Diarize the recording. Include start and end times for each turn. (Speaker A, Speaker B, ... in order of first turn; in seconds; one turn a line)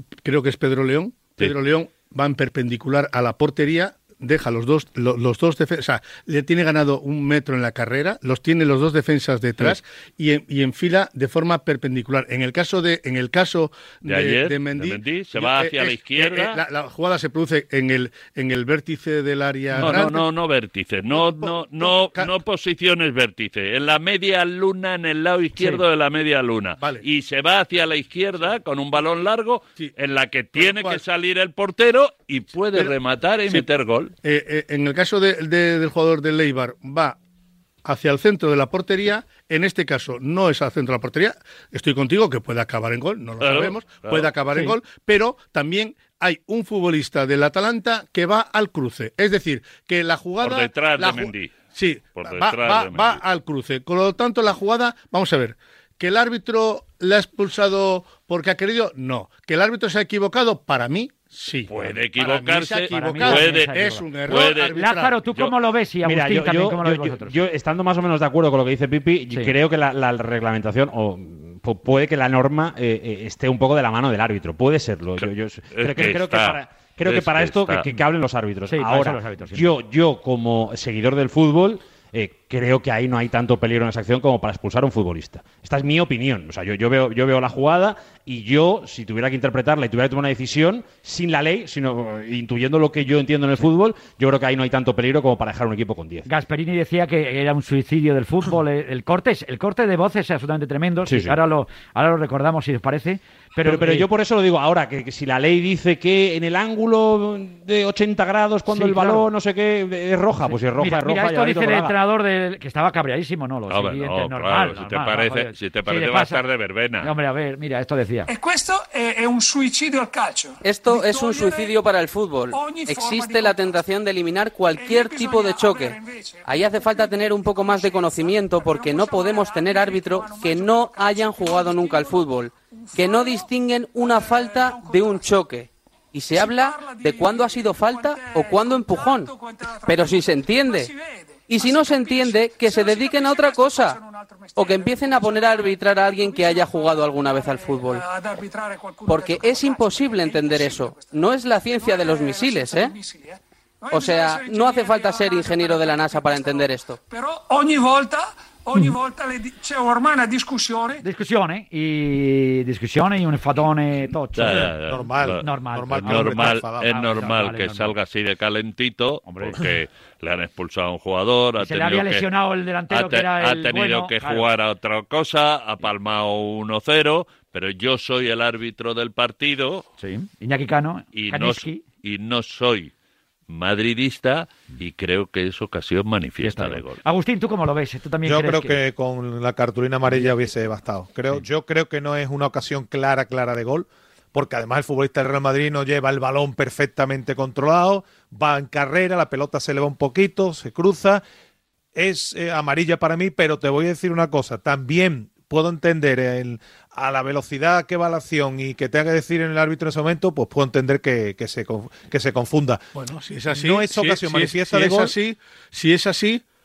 Speaker A: 0.2-20.3
Speaker B: 14.1-16.6
Speaker B: 19.8-34.1
Speaker A: 21.1-22.4
Speaker C: 25.6-25.8
Speaker A: 26.8-27.0
Speaker A: 30.6-31.0
Speaker A: 34.2-37.2
Speaker A: 37.8-65.2
Speaker B: 43.4-44.3
Speaker B: 50.4-53.2
Speaker B: 61.7-64.8
Speaker C: 62.9-67.4
Speaker D: 66.0-96.3
Speaker B: 75.7-77.9
Speaker C: 78.7-79.7
Speaker C: 96.3-104.1
Speaker D: 101.0-101.4
Speaker D: 103.6-112.0
Speaker C: 108.7-109.3
Speaker C: 110.5-116.4
Speaker B: 113.7-117.1
Speaker C: 117.0-118.3
Speaker E: 118.3-121.8
Speaker F: 120.6-139.3
Speaker E: 122.5-123.8
Speaker E: 124.7-135.3
Speaker E: 136.3-161.0
Speaker F: 139.9-140.9
Speaker F: 141.5-144.0
Speaker F: 144.6-148.1
Speaker F: 149.1-152.9
Speaker F: 153.9-157.0
Speaker C: 161.0-164.8
Speaker B: 164.3-172.3
Speaker G: 164.5-166.9
Speaker C: 165.4-167.9
Speaker C: 169.3-169.7
Speaker C: 171.6-174.5
Speaker B: 172.9-179.9
Speaker C: 180.0-181.8
Speaker B: 181.1-182.9
Speaker B: 183.5-187.0
Speaker C: 186.4-188.8
Speaker G: 188.2-201.2
Speaker C: 190.1-190.4
Speaker G: 201.9-212.9
Speaker A: 212.9-216.4
Speaker G: 213.5-215.1